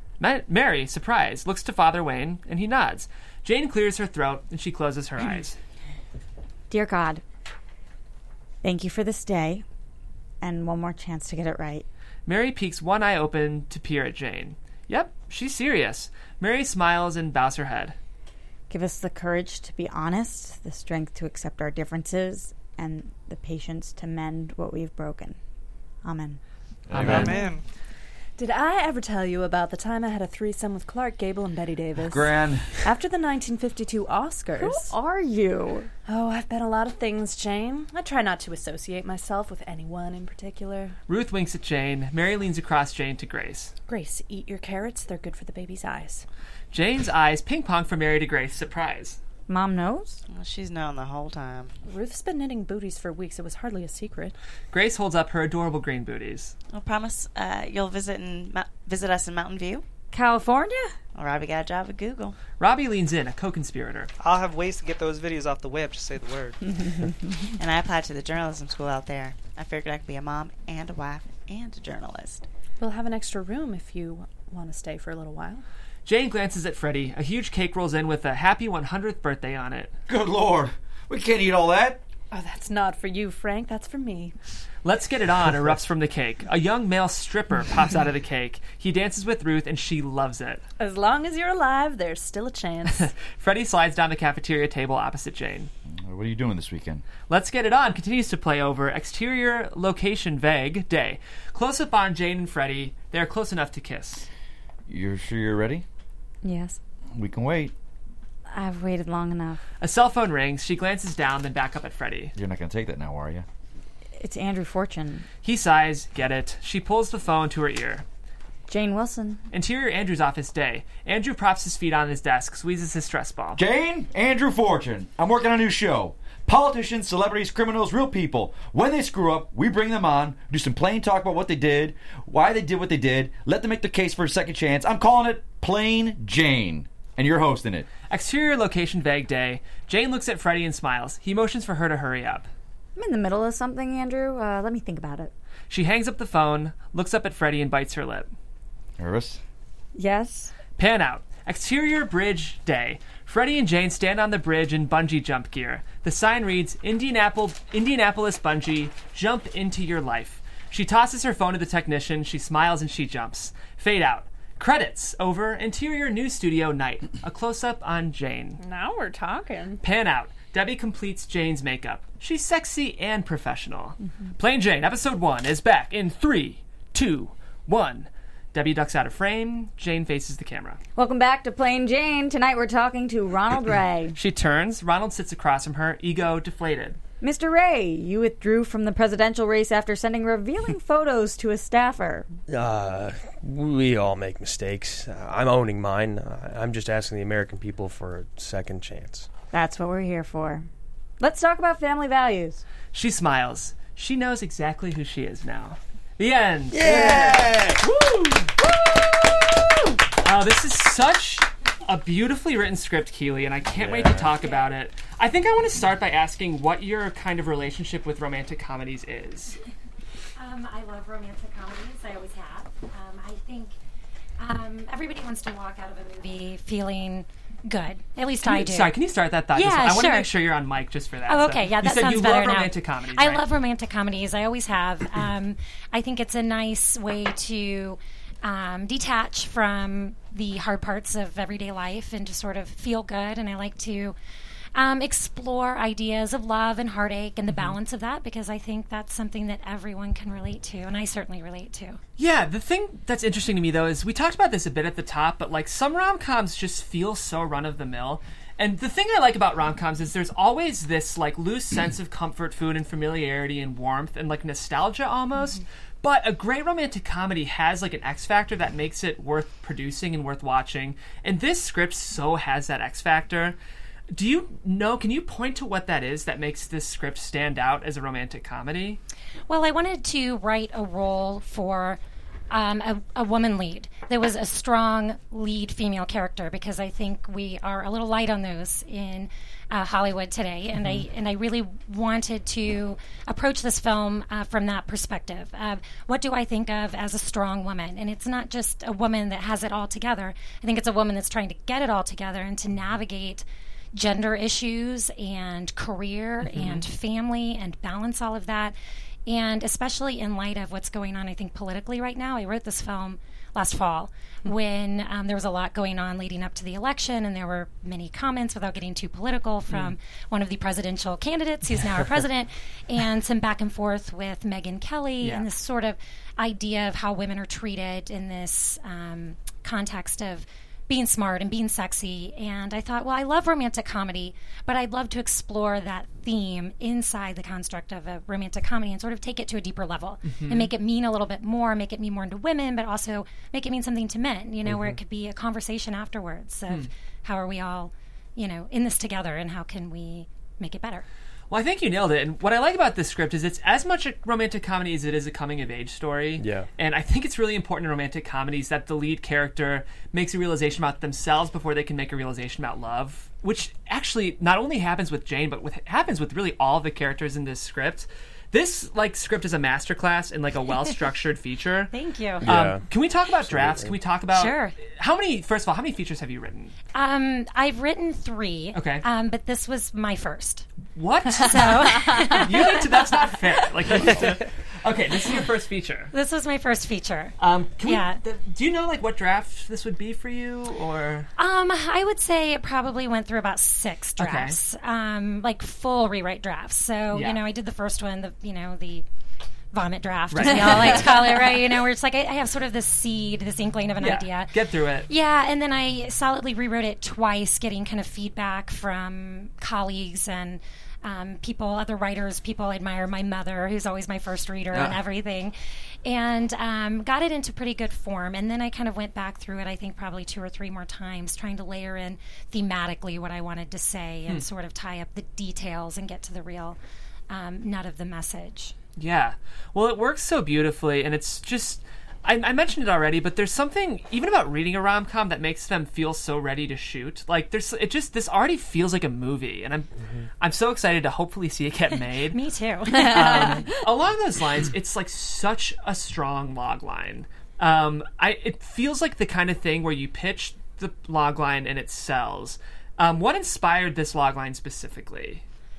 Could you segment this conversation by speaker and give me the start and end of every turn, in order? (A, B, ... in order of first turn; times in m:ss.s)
0:00.2-0:05.6 A
0:06.7-0:07.2 B
0:08.6-0:09.6 B
0:10.4-0:11.8 B
0:12.2-0:18.0 A
0:18.7-0:25.4 B
0:26.0-0:26.4 B
0:26.9-0:27.3 C
0:26.9-0:27.3 A
0:27.0-0:27.6 D
0:27.2-0:27.4 E
0:28.4-0:34.9 E
0:32.0-0:32.8 C
0:34.6-0:35.9 B
0:36.0-0:40.9 E
0:41.1-0:43.7 A
0:43.9-0:46.2 E
0:46.7-0:49.2 A
0:49.5-0:50.2 B
0:50.3-0:51.7 F
0:51.9-0:54.3 E
0:54.7-0:56.5 A
0:56.7-0:59.8 F
1:00.1-1:00.9 B
1:01.1-1:02.4 F
1:02.6-1:04.1 A
1:04.2-1:06.6 D
1:07.6-1:12.5 F
1:12.8-1:15.6 E
1:16.0-1:19.9 A
1:20.1-1:22.0 C
1:22.3-1:24.3 E
1:24.8-1:30.6 A
1:30.8-1:33.1 E
1:32.9-1:35.7 A
1:36.0-1:37.0 C
1:37.3-1:44.2 A
1:44.9-1:45.8 C
1:46.4-1:46.8 B
1:47.1-1:47.7 C
1:48.5-1:49.6 B
1:49.8-1:52.3 A
1:52.3-1:53.4 C
1:54.2-1:55.2 B
1:55.4-1:58.0 A
1:58.7-1:59.4 B
1:59.5-2:03.6 A
2:03.6-2:17.9 C
2:18.1-2:22.5 A
2:23.0-2:25.3 B
2:25.7-2:28.3 A
2:29.0-2:29.4 C
2:29.9-2:30.5 B
2:30.8-2:48.6 A
2:48.6-2:49.8 E
2:49.8-3:00.8 A
3:01.0-3:04.2 B
3:04.1-3:07.0 A
3:07.2-3:12.3 B
3:12.5-3:19.3 G
3:19.5-3:20.7 B
3:21.2-3:22.6 B
3:22.9-3:29.0 A
3:26.8-3:27.8 C
3:26.8-3:27.4 G
3:30.1-3:39.6 A
3:33.8-3:34.1 G
3:40.4-3:43.7 H
3:44.4-3:49.0 H
3:48.4-3:53.4 A
3:49.5-3:50.3 H
3:51.3-4:04.1 H
4:04.7-4:12.0 H
4:07.5-4:07.7 A
4:12.2-4:33.6 A
4:34.1-4:39.0 A
4:39.5-5:08.8 H
4:50.8-4:51.0 A
5:06.5-5:06.8 A
5:09.3-5:51.0 H
5:19.7-5:19.9 A
5:40.3-5:40.7 A
5:44.6-5:45.0 G
5:51.5-6:16.7 A
5:56.4-5:56.7 G
6:11.9-6:12.4 H
6:12.4-6:12.8 G
6:13.5-6:13.9 G
6:14.3-6:14.8 H
6:16.9-6:20.7 H
6:18.7-6:19.0 A
6:21.0-6:26.1 A
6:21.4-6:22.8 H
6:26.1-6:28.2 H
6:27.4-6:31.3 A
6:31.4-6:39.0 H
6:34.2-6:34.6 A
6:37.1-6:37.4 A
6:39.7-7:06.8 H
6:40.3-6:41.1 A
6:44.0-6:45.1 A
7:07.3-7:08.7 H
7:09.0-7:19.9 A
7:20.4-7:22.4 A
7:22.3-7:23.7 H
7:22.9-7:35.4 A